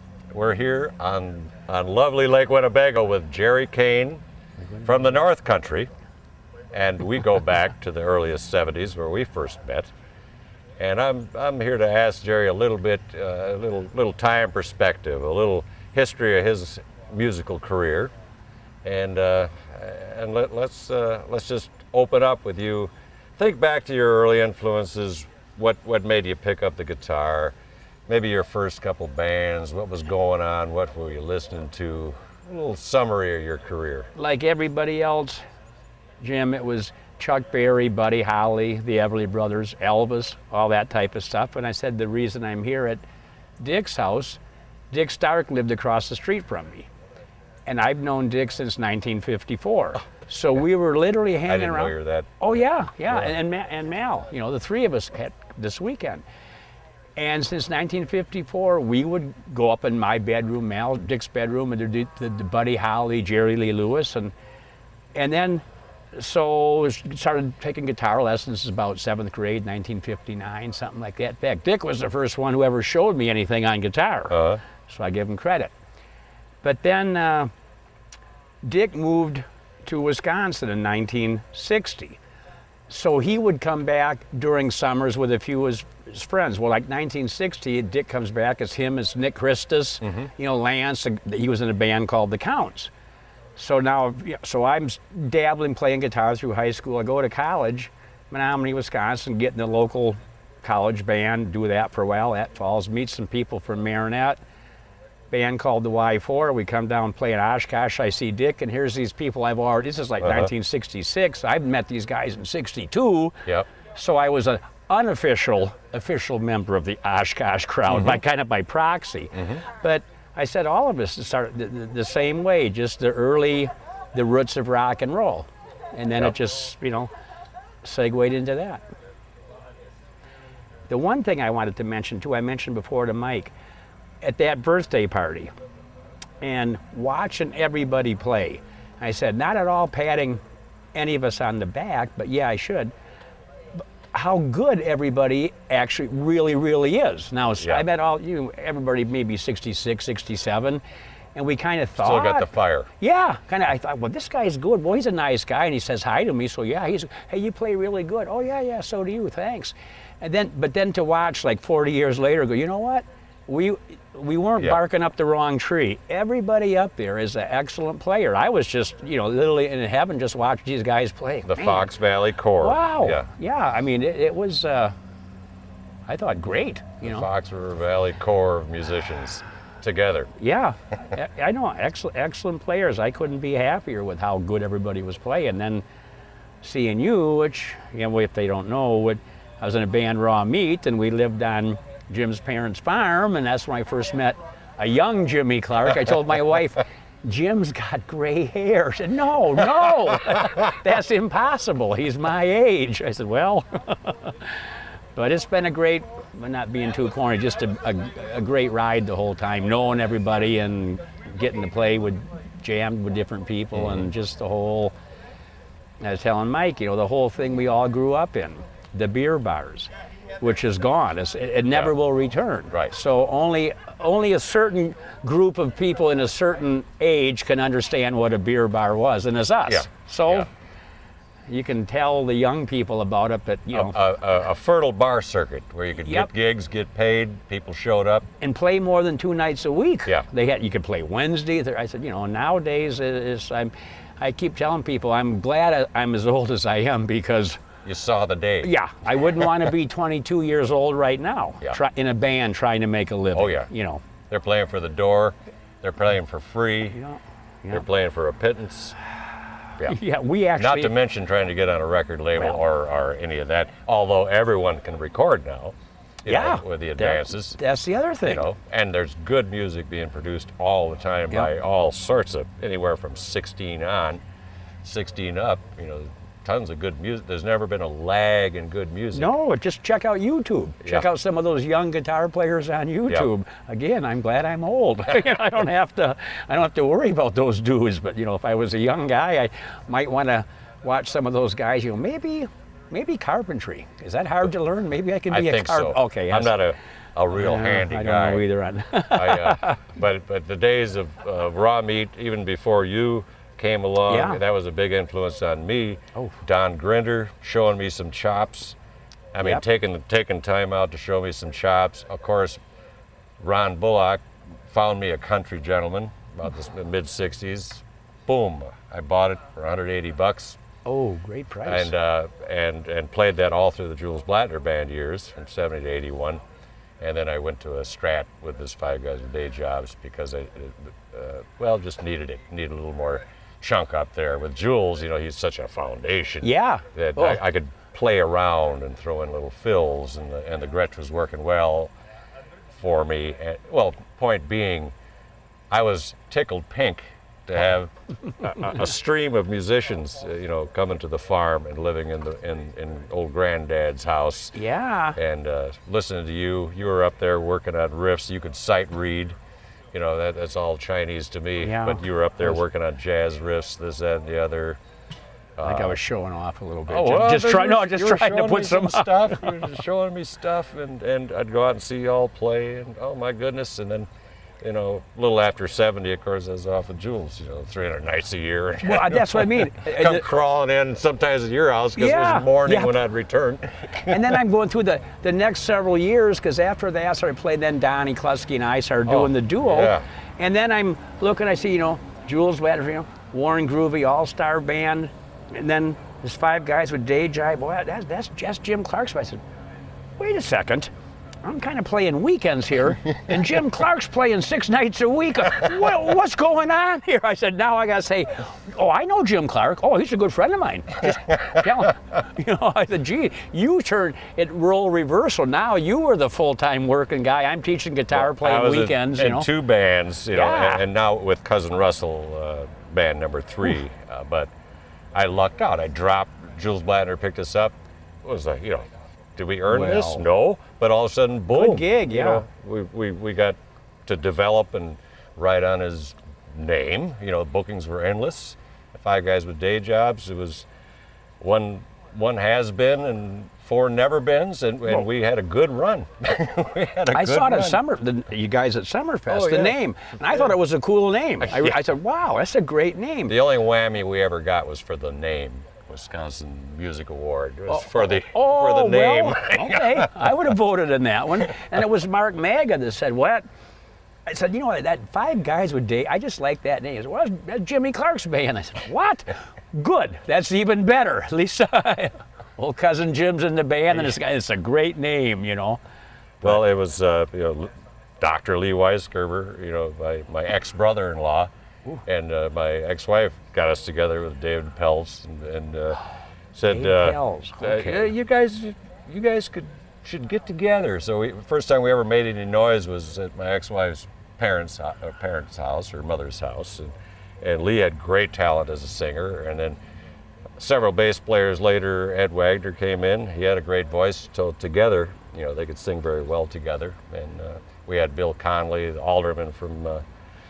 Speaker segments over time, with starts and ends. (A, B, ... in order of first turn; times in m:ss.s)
0:00.3-0:04.2 A
0:04.8-0:05.1 B
0:04.8-0:05.9 A
0:06.7-0:09.9 A
0:10.8-0:18.1 A
0:18.8-0:27.5 A
0:28.1-0:34.1 A
0:34.1-0:35.4 B
0:36.2-0:43.0 B
0:43.6-0:44.4 B
0:44.9-0:46.9 B
0:47.6-0:56.2 B
0:51.5-0:52.5 A
0:57.2-1:04.3 B
1:05.1-1:15.7 B
1:14.3-1:14.6 A
1:16.6-1:17.5 B
1:18.6-1:22.2 B
1:22.9-1:32.9 B
1:30.0-1:30.3 A
1:33.6-1:44.4 B
1:45.3-2:07.1 B
1:50.2-1:50.5 A
2:07.8-2:08.8 B
2:10.9-2:13.5 B
2:14.2-2:15.5 B
2:16.4-2:20.4 B
2:20.9-2:22.9 B
2:24.1-2:30.8 B
2:27.6-2:27.8 A
2:31.3-2:51.9 B
2:32.0-2:32.9 A
2:51.4-2:53.3 A
2:52.6-2:54.9 B
2:56.1-2:57.3 B
2:57.0-3:00.3 A
3:00.4-3:05.8 B
3:06.6-3:24.6 B
3:25.2-3:34.9 B
3:36.0-3:50.5 B
3:42.7-3:43.0 A
3:49.7-3:50.5 A
3:51.5-3:54.0 B
3:53.7-3:58.3 A
3:56.0-3:56.3 B
3:58.4-4:07.6 B
4:07.8-4:08.7 A
4:08.6-4:14.1 B
4:13.3-4:17.0 A
4:16.9-4:17.8 B
4:17.7-4:19.0 A
4:19.8-4:21.0 B
4:20.5-4:27.6 A
4:26.3-4:28.5 B
4:28.2-4:34.2 A
4:34.8-4:39.3 A
4:39.1-4:56.7 B
4:55.3-4:58.5 A
4:57.3-4:59.9 B
4:59.1-5:08.8 A
5:04.1-5:04.4 B
5:09.3-5:12.6 A
5:13.4-5:20.6 A
5:20.8-5:21.9 B
5:21.6-5:26.4 A
5:27.0-5:41.9 A
5:36.4-5:37.4 B
5:42.7-5:44.9 A
5:45.7-5:54.6 A
5:54.5-5:55.2 B
5:55.1-5:59.4 A
5:59.9-6:04.8 A
6:01.6-6:02.6 B
6:05.6-6:06.0 A
6:05.6-6:09.8 B
6:06.9-6:14.1 A
6:14.6-6:24.2 A
6:18.8-6:20.3 B
6:22.0-6:23.1 B
6:24.0-6:39.4 B
6:29.1-6:30.0 A
6:40.2-6:40.9 B
6:41.4-6:59.5 B
6:58.1-7:04.5 A
7:00.3-7:00.9 B
7:05.1-7:08.8 A
7:09.4-7:20.7 A
7:09.7-7:10.2 B
7:11.5-7:12.4 B
7:21.4-7:27.8 A
7:27.1-7:33.4 B
7:29.3-7:30.5 A
7:31.4-7:31.8 A
7:33.2-7:40.2 A
7:37.7-7:43.4 B
7:44.2-7:55.8 B
7:56.4-8:01.5 A
8:02.0-8:06.0 A
8:06.5-8:19.8 A
8:06.6-8:08.1 B
8:20.6-8:30.0 A